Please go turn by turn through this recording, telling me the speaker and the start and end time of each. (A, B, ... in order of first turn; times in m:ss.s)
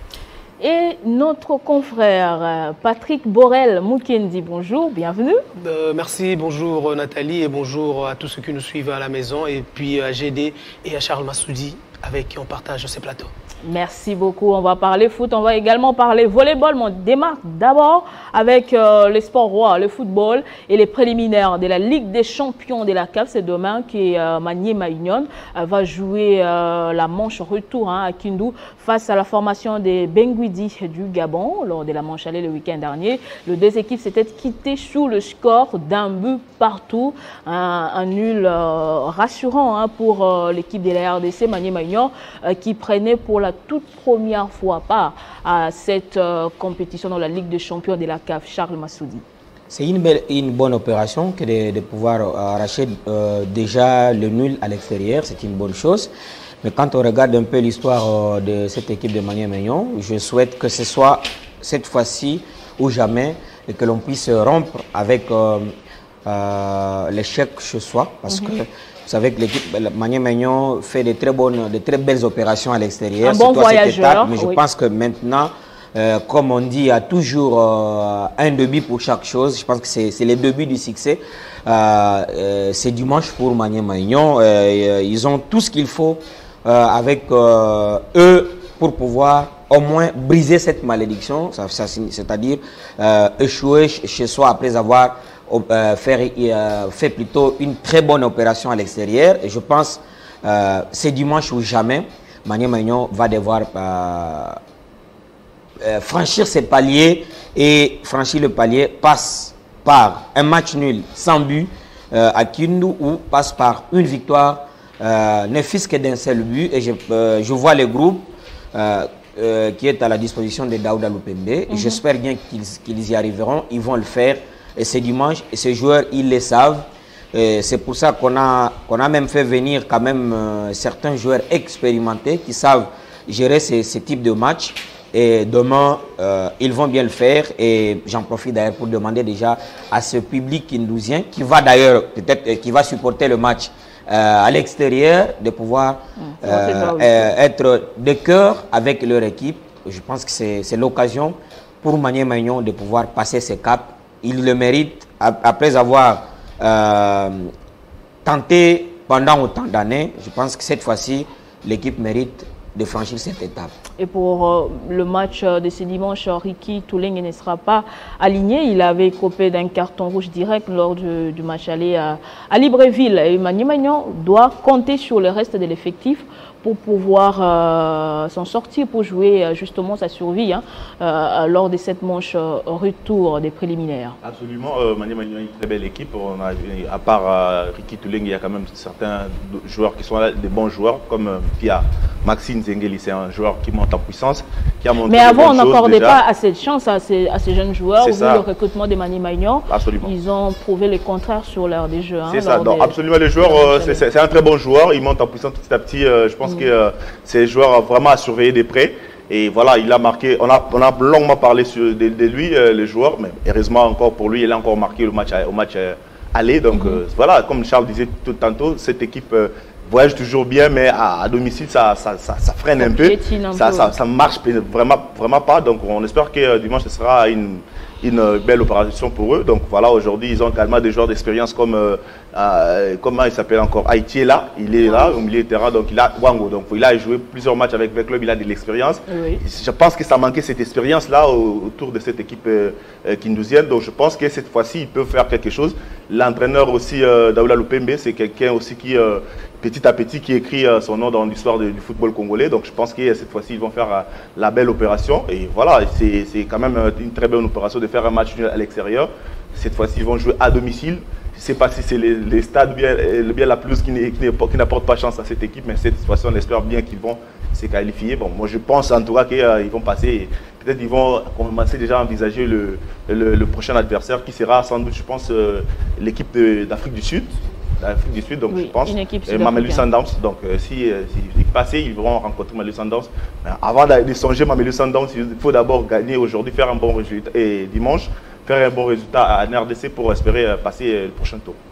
0:00.6-0:05.4 A
0:05.6-0:13.3 B
0:13.6-0:49.2 A
0:49.7-0:56.1 C
0:56.6-1:05.7 C
1:06.2-1:44.6 C
1:13.2-1:14.6 A
1:45.8-2:37.5 C
2:01.7-2:02.0 A
2:26.2-2:27.3 A
2:38.2-2:43.7 C
2:44.0-3:04.2 A
3:04.2-3:16.2 D
3:15.0-3:24.0 A
3:18.0-3:18.4 D
3:19.7-3:20.1 D
3:22.3-4:51.6 D
3:36.7-3:37.0 A
3:42.8-3:43.9 A
3:54.9-3:55.2 A
3:59.1-3:59.4 A
4:38.5-4:39.8 A